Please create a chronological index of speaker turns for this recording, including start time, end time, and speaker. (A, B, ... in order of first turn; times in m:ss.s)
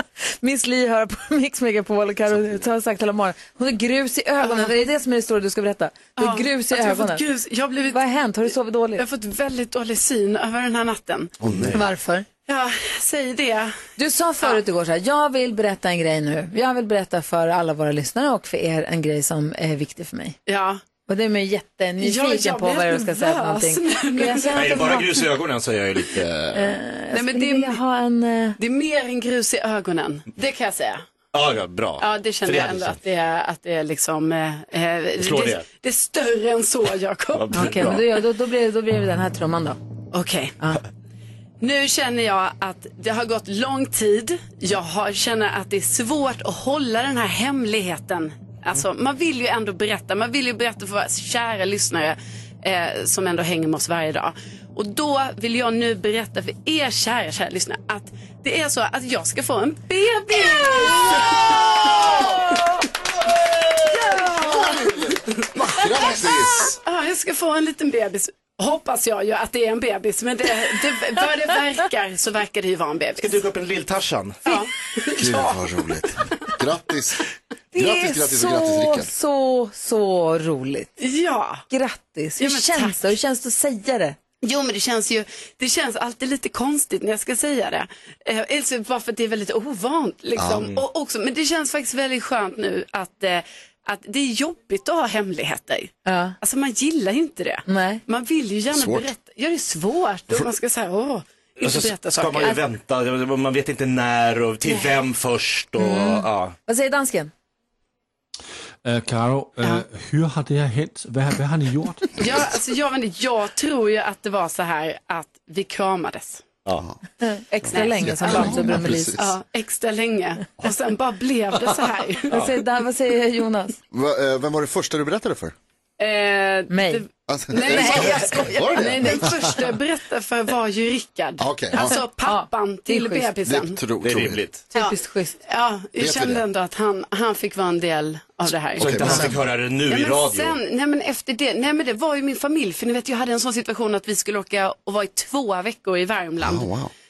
0:00.4-0:07.2 A
0:06.2-0:08.0 B
0:07.9-0:09.0 A
0:09.0-0:11.3 B
0:11.4-0:11.8 C
0:11.7-0:12.3 A
0:12.5-0:13.8 B
0:14.0-0:20.4 A
0:20.5-0:20.8 B
0:21.1-0:25.2 A
0:22.0-0:25.0 B
0:24.5-0:26.8 D
0:26.5-0:28.6 A
0:27.1-0:27.8 B
0:28.6-0:31.0 B
0:31.3-0:33.0 D
0:32.0-0:38.0 B
0:35.2-0:35.6 D
0:37.3-0:38.0 D
0:37.5-0:39.8 A
0:40.1-0:40.6 B
0:41.6-1:02.6 B
1:03.9-1:05.1 B
1:04.2-1:06.8 C
1:05.8-1:13.4 B
1:13.2-1:14.6 D
1:14.5-1:15.7 B
1:15.2-1:17.2 C
1:17.7-1:19.1 C
1:17.7-1:20.9 A
1:21.0-1:21.7 B
1:21.7-1:24.2 A
1:22.4-1:23.0 B
1:24.4-1:42.6 B
1:30.4-1:30.7 C
1:36.1-1:36.4 A
1:37.7-1:38.0 A
1:38.7-1:39.1 C
1:41.6-1:46.6 D
1:45.8-1:47.3 A
1:48.8-1:52.2 E
1:52.2-1:56.4 B
1:57.2-1:59.2 A
1:57.6-1:59.3 C
1:57.7-2:02.4 B
2:02.3-2:03.8 A
2:03.9-2:05.6 C
2:06.0-2:13.8 B
2:06.7-2:07.0 A
2:07.3-2:09.4 C
2:07.7-2:08.1 A
2:11.4-2:12.0 C
2:11.7-2:13.3 A
2:13.4-2:14.4 C
2:14.0-2:14.6 D
2:14.7-2:15.4 A
2:15.5-2:19.3 B
2:16.0-2:16.5 C
2:18.8-2:19.4 C
2:18.8-2:20.6 D
2:19.9-2:26.7 B
2:26.4-2:26.9 C